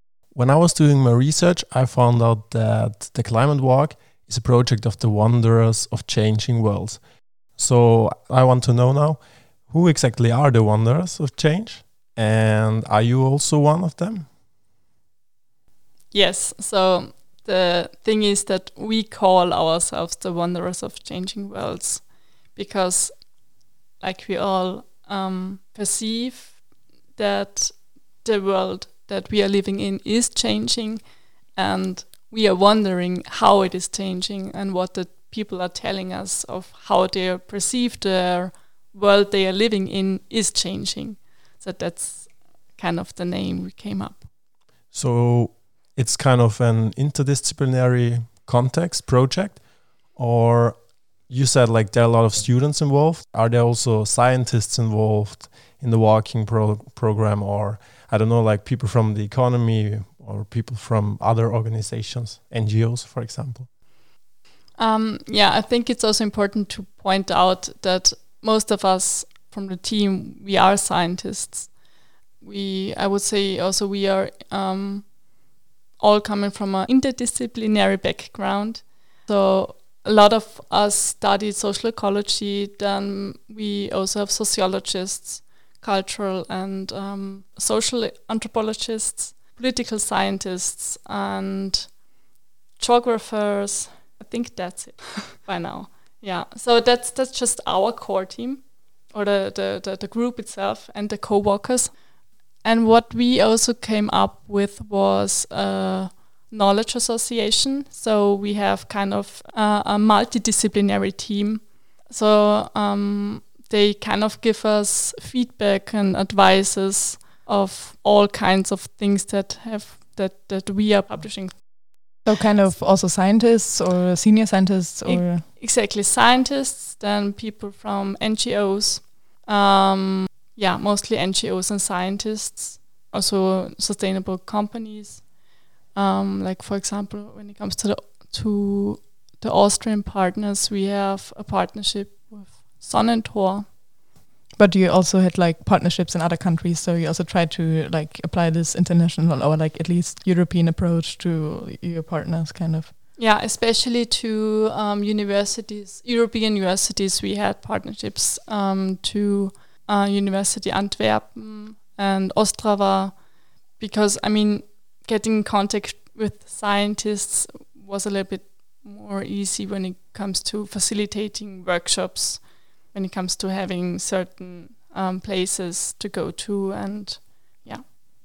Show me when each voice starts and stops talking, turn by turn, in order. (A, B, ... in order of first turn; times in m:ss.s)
0:00.3-0:14.3 A
0:16.1-0:44.2 B
0:44.9-1:03.7 A
1:04.8-1:15.4 B
1:16.0-1:32.1 B
1:32.8-2:02.0 B
2:02.2-2:05.4 C
2:05.0-2:15.4 B
2:15.9-2:23.7 B
2:24.5-2:32.9 C
2:33.2-2:57.8 B